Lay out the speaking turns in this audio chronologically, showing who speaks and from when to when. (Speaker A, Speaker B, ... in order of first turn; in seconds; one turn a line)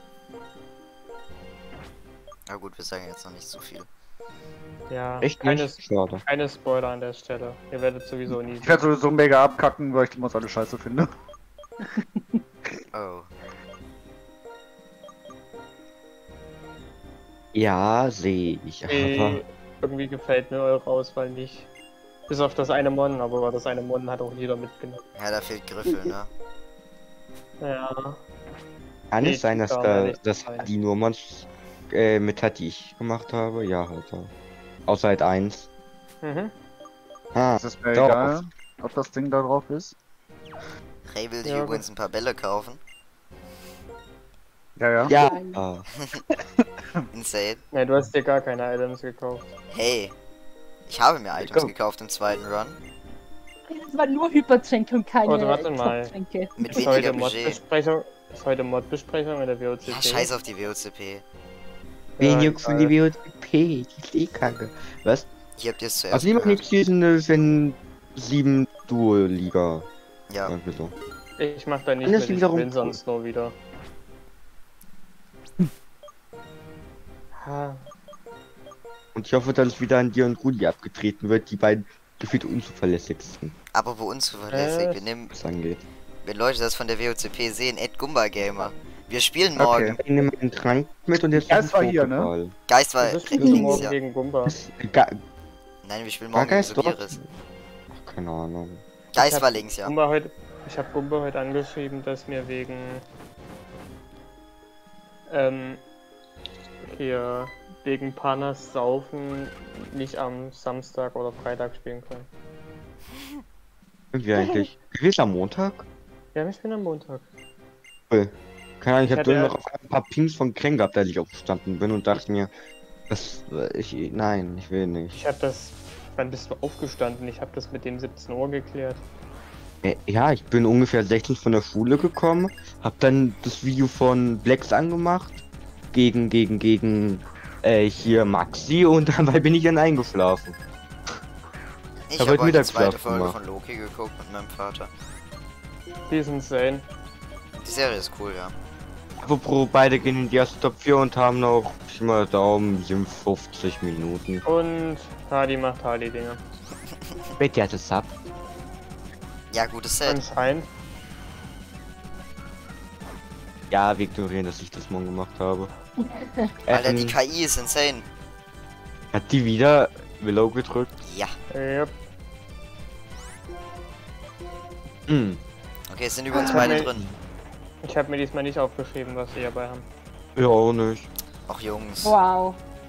Speaker A: 2.5-3.9
Speaker B: 4.9-8.8
Speaker C: 5.2-6.2
Speaker D: 8.6-11.1
Speaker D: 11.8-12.8
Speaker A: 12.9-13.3
Speaker C: 17.5-19.4
Speaker B: 18.9-21.7
Speaker B: 22.3-25.0
Speaker A: 25.2-26.3
Speaker B: 27.6-28.2
Speaker C: 29.1-34.3
Speaker B: 29.2-30.7
Speaker C: 34.9-35.7
Speaker B: 36.2-36.5
Speaker C: 37.3-38.4
Speaker D: 37.6-39.9
Speaker A: 41.0-42.8
Speaker B: 41.4-41.8
Speaker D: 44.8-45.1
Speaker C: 45.1-45.9
Speaker E: 45.1-45.6
Speaker A: 45.9-46.2
Speaker A: 47.1-47.6
Speaker B: 47.7-49.5
Speaker A: 49.7-50.1
Speaker A: 50.9-52.8
Speaker C: 51.4-51.7
Speaker E: 53.7-57.1
Speaker B: 55.2-56.1
Speaker A: 56.6-57.6
Speaker B: 56.7-60.3
Speaker A: 59.9-61.2
Speaker B: 62.2-63.0
Speaker C: 62.2-65.3
Speaker A: 65.6-66.6
Speaker C: 66.1-69.9
Speaker A: 70.3-70.5
Speaker C: 70.5-70.9
Speaker B: 71.4-73.6
Speaker C: 72.0-73.0
Speaker B: 77.3-77.9
Speaker C: 79.2-83.5
Speaker A: 83.7-85.3
Speaker B: 84.5-85.0
Speaker C: 85.3-85.8
Speaker A: 86.2-90.0
Speaker D: 89.6-90.0
Speaker C: 90.0-92.5
Speaker D: 91.3-92.3
Speaker A: 92.7-94.0
Speaker B: 93.0-94.6
Speaker E: 93.4-93.8
Speaker C: 94.5-95.2
Speaker A: 95.8-97.2
Speaker C: 96.3-97.2
Speaker C: 98.0-98.8
Speaker A: 99.1-99.9
Speaker B: 99.1-103.0
Speaker B: 105.3-105.8
Speaker B: 106.8-112.3
Speaker C: 114.1-115.8
Speaker B: 116.3-117.2
Speaker C: 118.1-122.5
Speaker B: 119.1-119.5
Speaker C: 123.1-125.2
Speaker B: 125.1-129.0
Speaker C: 129.8-135.4
Speaker C: 135.9-140.6
Speaker A: 142.1-144.9
Speaker C: 142.2-143.3
Speaker B: 146.1-146.9
Speaker A: 147.6-148.5
Speaker C: 149.2-154.4
Speaker B: 154.4-156.4
Speaker C: 157.4-158.1
Speaker A: 159.5-160.2
Speaker B: 160.0-160.7
Speaker C: 163.7-165.7
Speaker E: 166.0-166.4
Speaker C: 166.7-167.1
Speaker A: 166.7-168.1
Speaker C: 169.1-171.0
Speaker A: 171.1-171.3
Speaker B: 171.5-171.9
Speaker C: 175.1-175.4
Speaker A: 175.9-177.1
Speaker B: 176.4-176.9
Speaker B: 177.8-179.9
Speaker C: 180.4-181.1
Speaker A: 181.5-182.2
Speaker E: 182.0-182.6